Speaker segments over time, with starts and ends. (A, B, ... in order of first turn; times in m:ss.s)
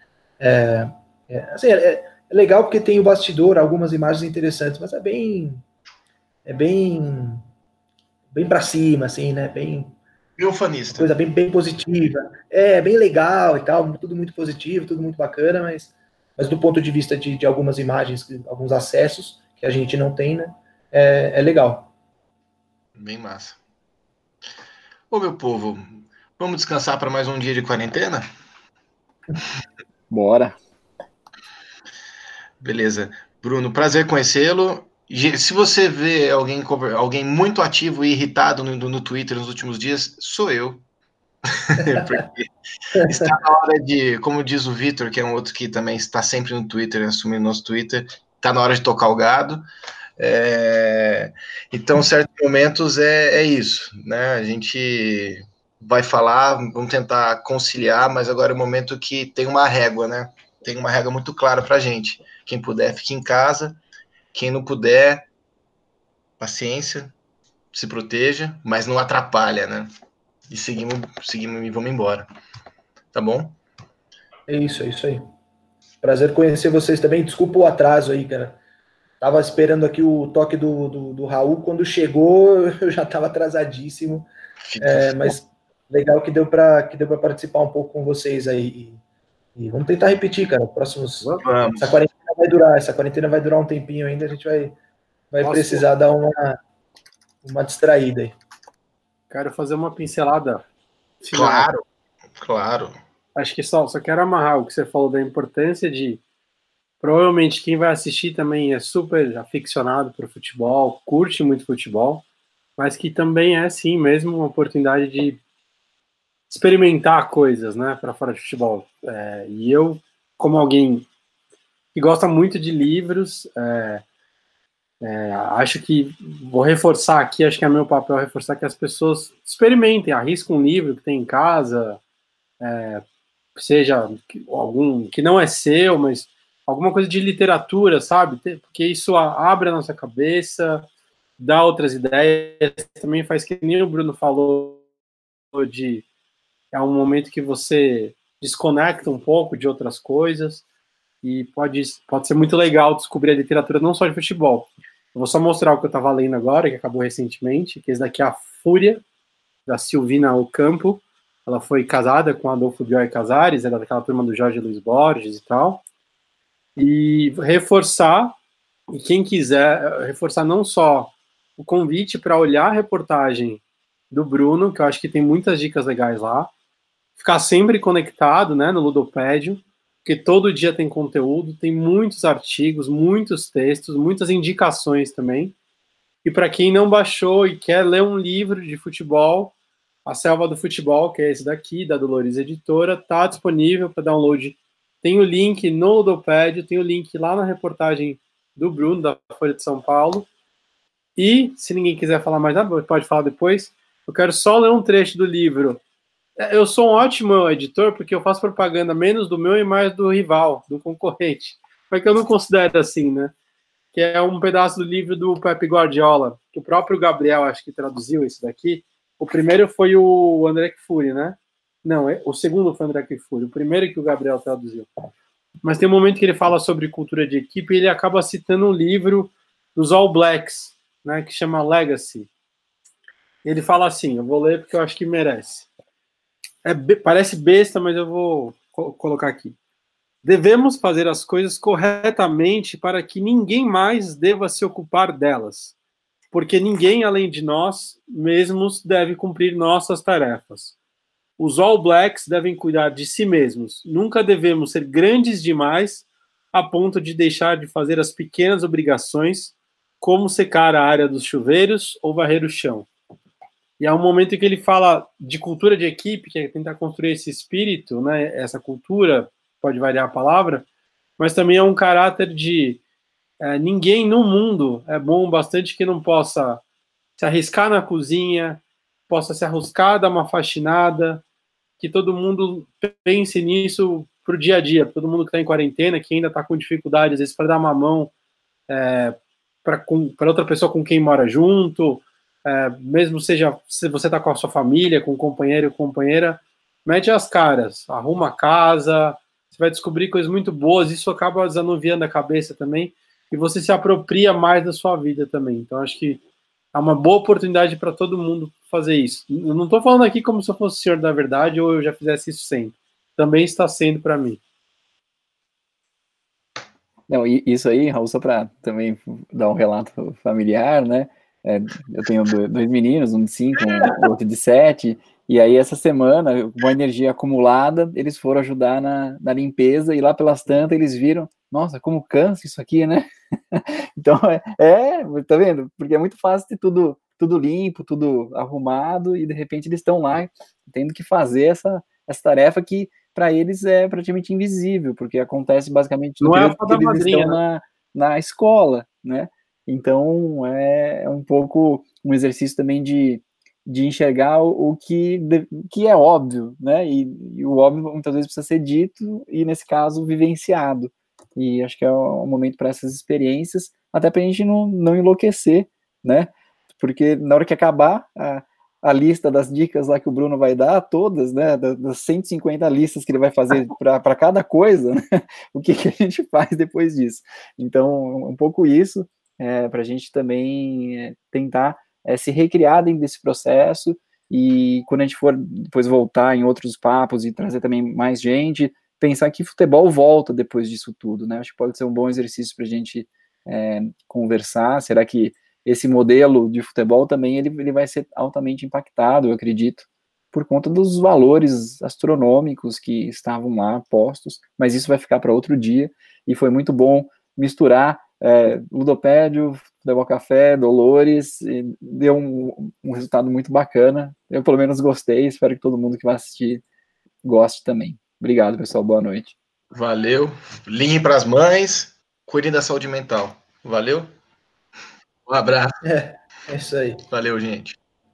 0:00.4-0:05.6 A
0:06.4-0:07.4 A
0:08.3-0:10.0 A
0:10.4-0:11.1 B
0:10.9-0:21.9 A
0:23.0-0:23.6 B
0:25.1-0:28.3 B
0:30.1-0:30.6 C
0:32.6-0:40.8 B
0:41.5-0:49.6 B
0:43.0-0:43.3 A
0:50.2-1:03.8 B
1:04.3-1:05.3 B
1:06.4-1:07.1 B
1:07.7-1:09.9 B
1:10.5-1:12.2 B
1:13.1-1:13.6 B
1:14.5-1:15.3 A
1:16.0-1:18.6 A
1:19.2-1:24.3 A
1:24.7-1:25.2 B
1:24.8-1:29.0 A
1:29.6-1:34.8 A
1:31.4-1:32.0 B
1:35.3-1:36.6 A
1:35.4-1:35.9 D
1:37.4-1:38.3 A
1:39.3-1:40.6 D
1:41.2-1:41.7 D
1:41.3-1:41.8 B
1:42.4-1:43.0 B
1:43.4-1:46.2 D
1:47.0-1:52.2 D
1:52.8-1:55.4 D
1:56.5-2:01.1 D
2:01.9-2:04.0 D
2:05.0-2:12.0 D
2:12.6-2:13.0 D
2:13.5-2:20.9 D
2:21.4-2:24.8 D
2:25.5-2:26.0 D
2:26.7-2:30.6 D
2:31.2-2:39.0 D
2:39.7-2:45.8 D
2:46.8-2:48.4 D
2:48.9-2:56.5 D
2:57.2-3:05.5 D
3:06.2-3:09.5 D
3:10.0-3:20.3 D
3:21.2-3:25.8 D
3:26.4-3:33.3 D
3:33.9-3:44.9 D
3:45.6-3:52.3 D
3:53.4-3:55.7 D
3:56.6-3:59.6 D
4:00.2-4:05.7 D
4:06.3-4:10.7 D
4:11.4-4:22.9 D
4:23.8-4:30.6 D
4:31.2-4:32.8 D
4:33.4-4:36.6 D
4:37.2-4:41.2 D
4:41.8-4:48.1 D
4:48.7-5:06.2 D
5:06.7-5:14.4 D
5:17.1-6:15.0 C
5:46.2-5:47.4 D
6:15.5-6:56.6 C
6:57.2-6:59.3 C
6:59.7-7:04.1 B
7:05.3-7:05.8 B
7:05.8-7:07.0 A
7:07.1-7:07.8 B